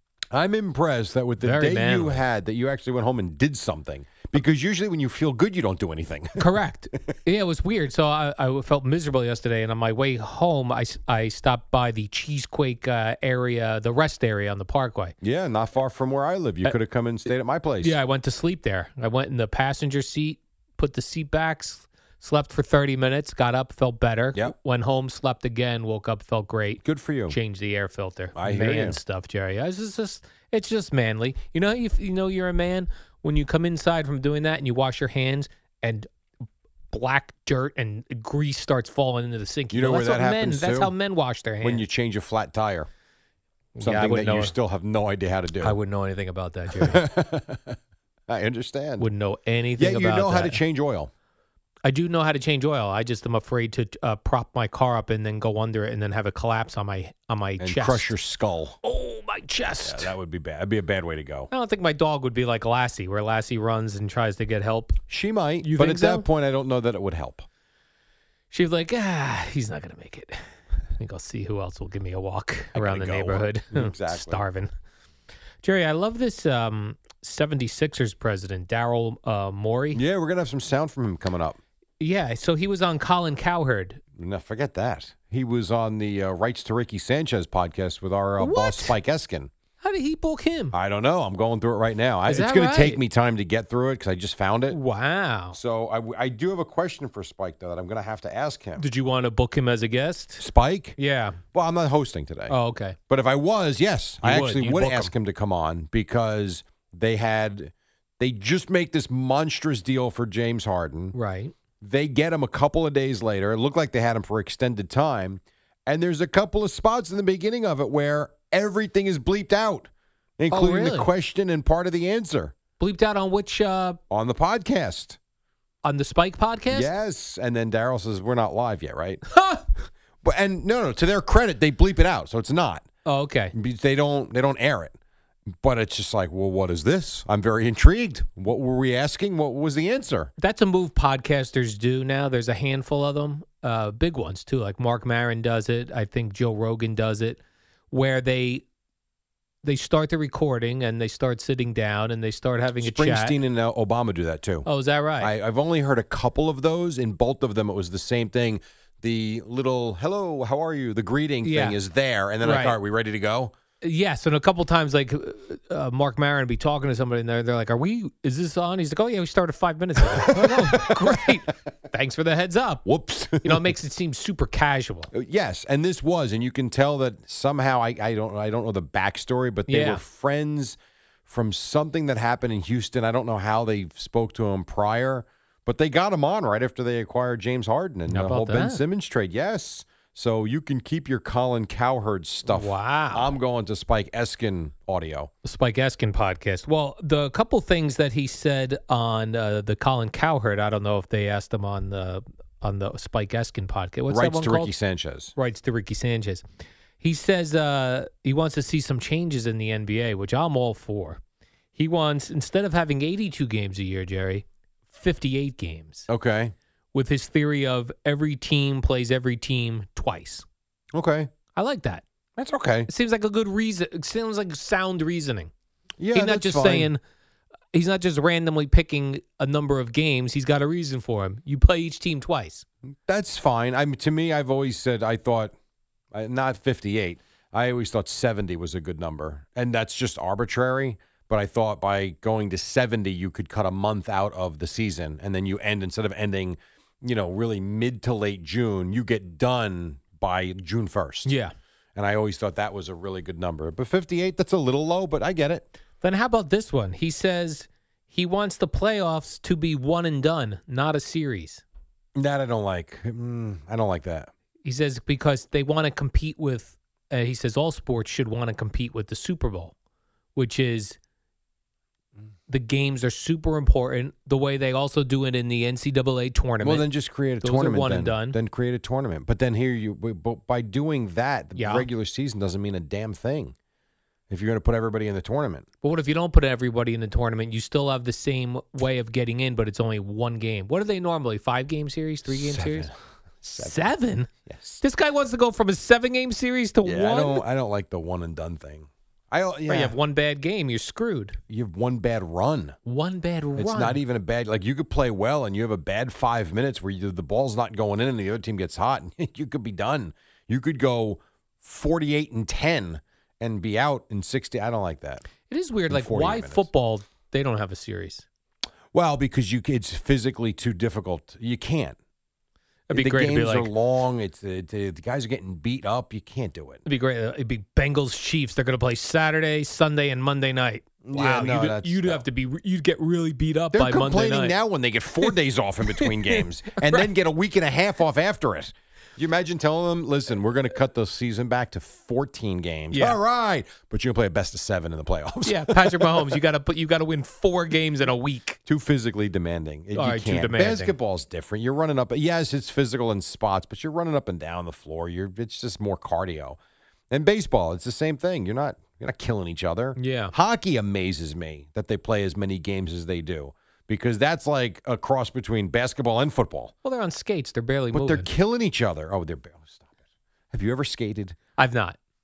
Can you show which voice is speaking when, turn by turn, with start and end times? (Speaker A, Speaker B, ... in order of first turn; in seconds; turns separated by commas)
Speaker A: 0.3-6.5, Speaker B: 1.4-2.2, Speaker B: 6.4-15.1, Speaker A: 15.2-17.9, Speaker B: 17.8-36.1, Speaker A: 26.8-27.4, Speaker A: 28.4-29.0, Speaker B: 36.9-41.8, Speaker A: 39.7-40.9, Speaker A: 41.6-42.9, Speaker B: 43.8-44.5, Speaker A: 43.8-45.8, Speaker B: 45.6-47.1, Speaker A: 46.7-49.1, Speaker B: 49.0-50.6, Speaker A: 49.8-51.1, Speaker B: 51.8-58.1, Speaker A: 57.6-58.8, Speaker B: 58.8-60.1, Speaker A: 59.8-61.5, Speaker B: 61.5-65.0, Speaker A: 65.1-67.5, Speaker B: 65.6-66.2, Speaker B: 68.5-70.4, Speaker B: 70.9-74.7, Speaker A: 72.7-74.4, Speaker B: 75.6-80.0, Speaker A: 79.9-81.6, Speaker B: 82.0-84.0, Speaker A: 84.1-89.5, Speaker B: 88.4-88.9, Speaker B: 89.8-90.7, Speaker A: 90.7-94.8, Speaker B: 92.3-93.0, Speaker B: 94.7-95.6, Speaker A: 95.5-98.8, Speaker B: 98.8-100.4, Speaker A: 100.4-101.0, Speaker B: 101.0-101.4, Speaker A: 101.5-102.5, Speaker B: 102.5-103.0, Speaker A: 103.1-111.1, Speaker B: 104.2-105.1, Speaker B: 111.1-111.5, Speaker A: 111.8-122.5, Speaker B: 120.5-121.1, Speaker B: 122.8-124.0, Speaker A: 124.1-125.2, Speaker B: 125.8-126.9, Speaker A: 126.7-129.2, Speaker B: 129.3-129.6, Speaker A: 130.2-132.8, Speaker B: 133.0-133.5, Speaker A: 133.5-134.9, Speaker A: 135.6-140.3, Speaker B: 140.4-147.4, Speaker B: 147.9-148.6, Speaker B: 149.6-153.4, Speaker A: 152.8-154.7, Speaker B: 154.7-155.3, Speaker A: 155.2-163.5, Speaker B: 161.4-161.8, Speaker B: 162.4-162.8, Speaker B: 163.8-172.9, Speaker A: 170.1-171.4, Speaker A: 172.8-173.7, Speaker B: 173.4-175.1, Speaker A: 175.1-195.3, Speaker B: 179.7-180.0, Speaker B: 188.1-188.8, Speaker B: 192.5-193.4, Speaker B: 195.4-204.7, Speaker A: 204.1-205.3, Speaker B: 205.3-206.4, Speaker B: 207.0-211.2, Speaker B: 211.7-216.1, Speaker A: 216.1-216.5, Speaker B: 216.9-220.4, Speaker A: 220.9-221.3, Speaker B: 221.5-222.0, Speaker A: 222.3-222.9, Speaker B: 222.9-225.5, Speaker A: 226.0-226.9, Speaker B: 226.1-227.0, Speaker B: 227.7-232.7, Speaker A: 233.1-235.5, Speaker A: 236.1-251.3, Speaker B: 251.2-251.5, Speaker A: 251.9-255.7, Speaker B: 256.0-261.6, Speaker A: 262.1-264.3, Speaker B: 264.6-269.7, Speaker B: 270.3-271.0, Speaker B: 272.5-276.9, Speaker A: 276.6-283.5, Speaker B: 277.4-278.4, Speaker B: 281.6-281.9, Speaker A: 284.3-285.7, Speaker B: 285.8-292.9, Speaker A: 292.3-292.9, Speaker B: 293.4-297.4, Speaker A: 293.5-293.9, Speaker A: 294.4-294.8, Speaker A: 296.8-300.0, Speaker B: 299.7-301.4, Speaker A: 301.5-302.8, Speaker B: 302.8-304.0, Speaker A: 303.6-315.3, Speaker B: 315.5-318.2, Speaker A: 315.9-316.7, Speaker A: 318.9-322.0, Speaker B: 322.9-323.7, Speaker A: 322.9-326.8, Speaker B: 326.9-334.6, Speaker A: 331.0-332.2, Speaker A: 333.7-346.4, Speaker B: 336.0-337.1, Speaker B: 342.9-343.2, Speaker B: 345.4-348.6, Speaker A: 348.6-356.6, Speaker B: 349.9-350.9, Speaker A: 357.1-366.7, Speaker B: 360.0-360.3, Speaker B: 366.8-368.3, Speaker A: 367.9-369.9, Speaker A: 370.5-371.4, Speaker B: 371.6-372.0